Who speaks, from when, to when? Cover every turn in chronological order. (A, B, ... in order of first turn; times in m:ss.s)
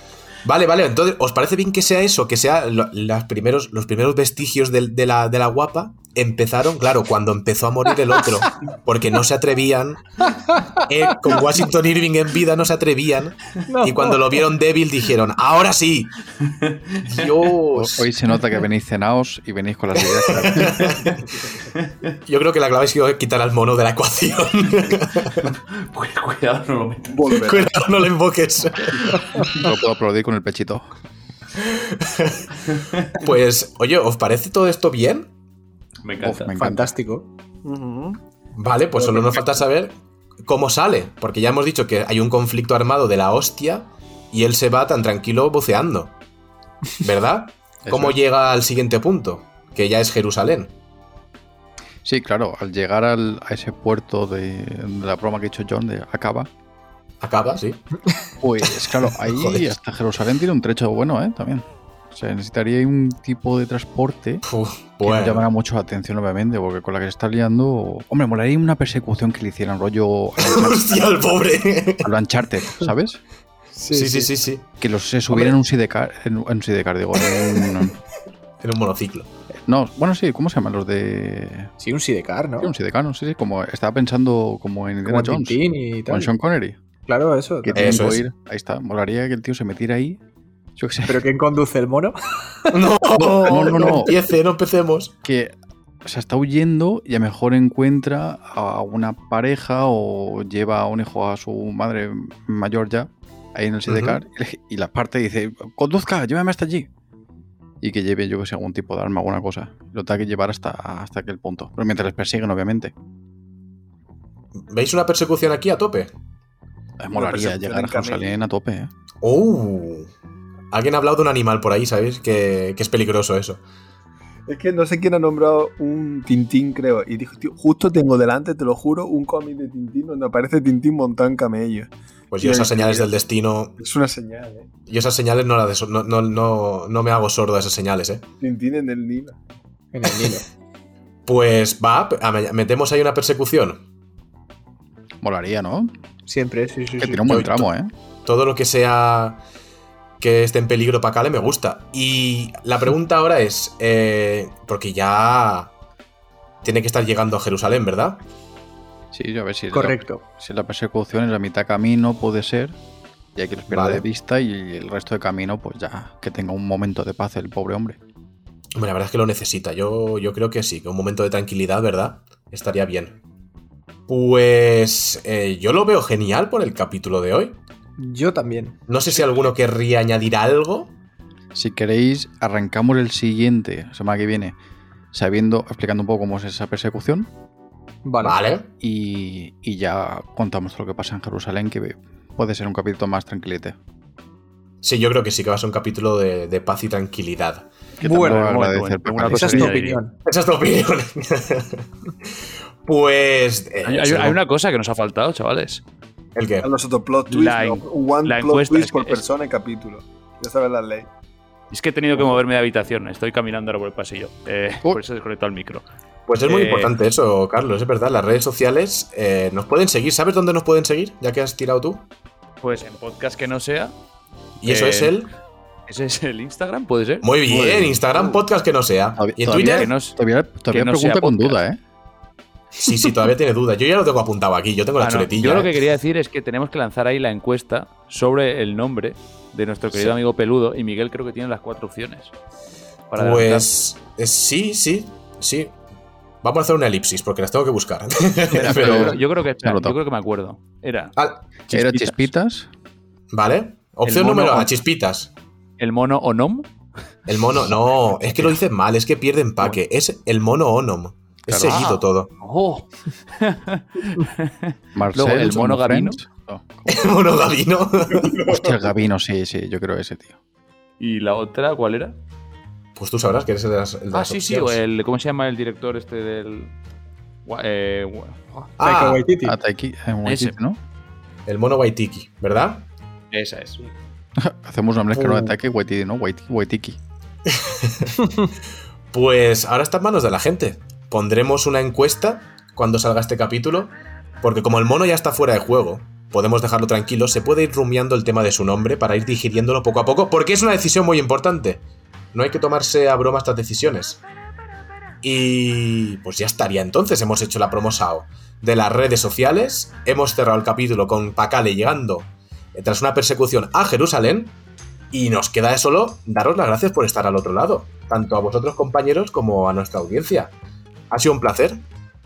0:00.4-0:10.0 A
0:10.2-0:11.4 B
0:10.9-0:16.1 A
0:13.7-0:14.4 B
0:16.4-0:17.3 C
0:17.0-0:18.1 A
0:17.8-0:21.0 D
0:20.3-0:21.0 A
0:20.8-0:22.1 C
0:22.3-0:25.5 A
0:25.4-0:27.5 C
0:27.1-0:27.7 E
0:27.4-0:29.5 A
0:29.6-0:30.9 D
0:31.6-0:32.5 A
0:32.7-0:33.1 C
0:33.1-0:35.3 A
0:36.0-0:36.5 C
0:36.2-0:36.9 D
0:36.5-0:37.3 B
0:37.6-0:38.2 E
0:38.6-0:46.1 A
0:39.0-0:39.4 E
0:47.0-0:50.7 A
0:47.9-0:48.2 D
0:52.0-0:56.5 D
0:57.2-0:57.8 A
0:58.4-1:04.4 D
0:59.2-0:59.7 A
1:04.4-1:05.5 A
1:05.0-1:11.1 D
1:10.4-1:12.1 A
1:12.0-1:13.2 D
1:13.8-1:14.3 B
1:13.9-1:14.7 A
1:14.8-1:18.0 D
1:18.6-1:19.3 A
1:19.7-1:21.7 D
1:21.8-1:22.7 B
1:22.6-1:26.8 D
1:25.0-1:26.3 B
1:27.1-1:27.8 B
1:27.6-1:30.2 D
1:27.7-1:28.2 A
1:30.8-1:31.2 D
1:31.1-1:34.1 B
1:32.7-1:35.1 A
1:33.2-1:34.2 D
1:35.2-1:46.9 D
1:43.9-1:44.2 A
1:47.8-1:52.9 D
1:54.7-1:56.1 A
1:57.0-1:58.9 D
1:57.1-1:58.4 E
1:59.2-2:00.1 A
2:00.7-2:03.6 A
2:04.5-2:11.9 E
2:12.3-2:13.8 A
2:12.4-2:13.1 E
2:13.8-2:14.7 E
2:14.9-2:18.2 A
2:18.4-2:19.4 E
2:19.9-2:20.5 B
2:21.3-2:23.8 A
2:25.2-2:25.9 D
2:26.3-2:27.3 B
2:27.0-2:27.9 D
2:27.3-2:27.7 A
2:28.2-2:29.4 A
2:30.2-2:35.7 A
2:36.6-2:38.2 A
2:39.1-2:42.8 D
2:39.7-2:40.2 B
2:43.4-2:48.0 D
2:43.7-2:44.0 A
2:48.8-2:53.2 A
2:54.1-2:57.6 A
2:58.0-2:58.8 B
2:58.9-3:00.9 A
3:01.5-3:04.6 D
3:05.1-3:07.3 D
3:08.0-3:08.4 B
3:08.2-3:08.7 A
3:08.8-3:13.8 D
3:14.8-3:17.7 A
3:18.0-3:19.8 D
3:18.0-3:18.4 B
3:18.1-3:20.0 C
3:19.3-3:20.1 B
3:20.2-3:21.9 A
3:22.8-3:24.4 A
3:23.8-3:25.8 C
3:26.4-3:26.7 A
3:26.6-3:31.1 E
3:27.3-3:29.2 C
3:31.7-3:35.8 C
3:36.3-3:42.0 A
3:36.4-3:36.9 C
3:42.6-3:43.9 C
3:44.6-3:45.2 C
3:44.6-3:45.3 A
3:45.9-3:47.3 C
3:47.2-3:49.9 A
3:47.5-3:48.0 D
3:48.1-3:48.4 C
3:49.2-3:51.8 D
3:49.5-3:51.6 C
3:52.8-3:55.7 A
3:55.0-4:02.3 C
4:03.1-4:03.7 C
4:03.2-4:05.8 A
4:06.4-4:09.2 A
4:08.5-4:12.3 C
4:08.5-4:10.0 D
4:11.2-4:11.4 A
4:11.7-4:12.7 D
4:13.3-4:15.3 A
4:14.1-4:14.8 C
4:15.8-4:16.7 C
4:17.3-4:22.3 A
4:21.5-4:21.9 D
4:21.6-4:26.2 C
4:25.0-4:27.1 D
4:26.9-4:28.5 A
4:28.3-4:30.4 D
4:31.0-4:32.2 C
4:33.0-4:34.8 A
4:34.1-4:36.7 C
4:37.4-4:38.6 C
4:38.8-4:39.2 A
4:38.8-4:39.6 B
4:39.4-4:40.8 D
4:40.2-4:40.6 C
4:41.5-4:42.8 A
4:43.3-4:43.9 C
4:44.4-4:47.0 D
4:45.1-4:45.5 A
4:47.5-4:48.3 A
4:49.1-5:04.2 A
5:05.2-5:14.6 A
5:15.1-5:20.5 A
5:21.1-5:21.8 A